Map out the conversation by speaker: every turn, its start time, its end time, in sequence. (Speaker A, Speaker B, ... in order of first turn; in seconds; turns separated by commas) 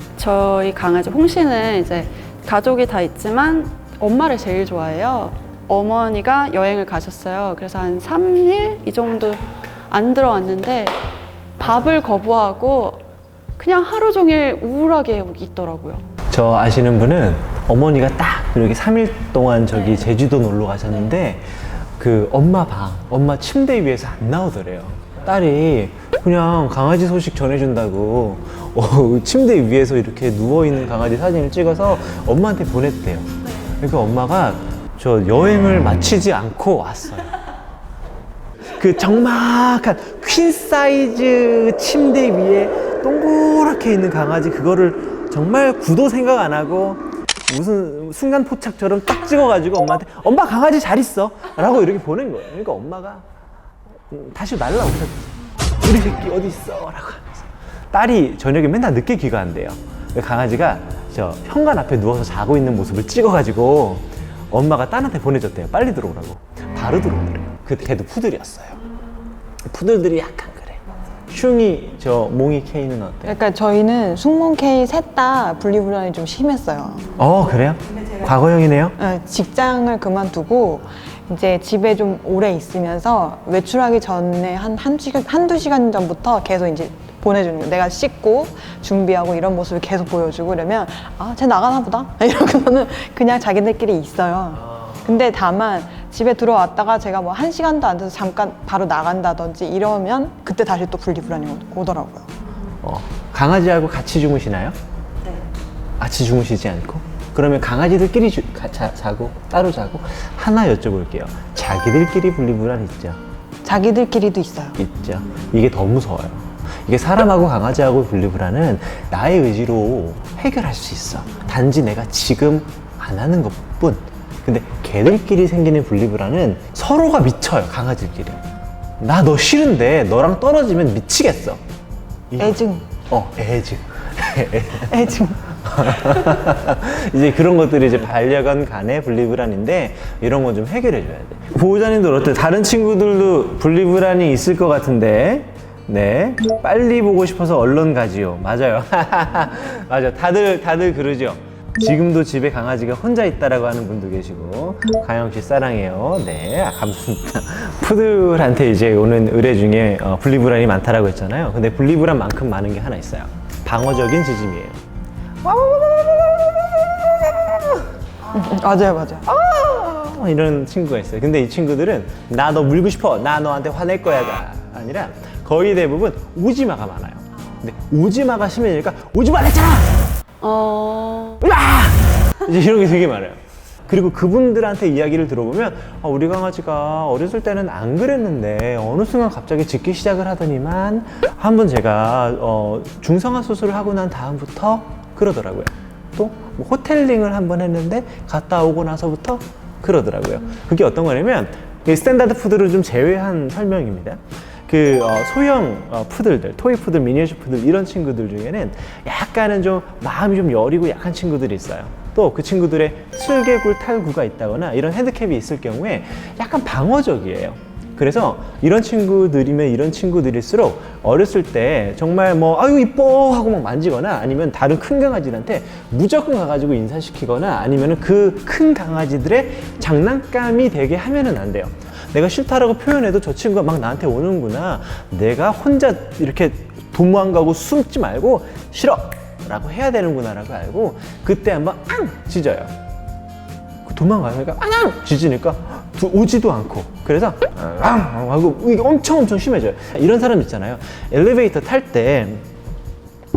Speaker A: 0.2-11.0, Speaker A: 11.6-13.1, Speaker A: 13.6-16.1, Speaker B: 16.3-21.4, Speaker B: 22.0-37.3, Speaker B: 38.7-53.2, Speaker B: 54.1-68.8, Speaker B: 69.7-73.4, Speaker C: 73.3-77.1, Speaker B: 77.2-79.0, Speaker C: 79.0-102.3, Speaker B: 102.8-104.8, Speaker B: 106.0-113.2, Speaker C: 113.6-114.8, Speaker B: 114.8-128.4, Speaker B: 129.0-131.6, Speaker B: 132.3-135.1, Speaker C: 132.4-132.9, Speaker C: 134.8-135.5, Speaker B: 135.7-164.8, Speaker B: 165.4-167.9, Speaker C: 168.3-169.3, Speaker B: 169.2-180.0, Speaker A: 180.4-181.4, Speaker B: 181.4-242.7, Speaker B: 243.8-252.5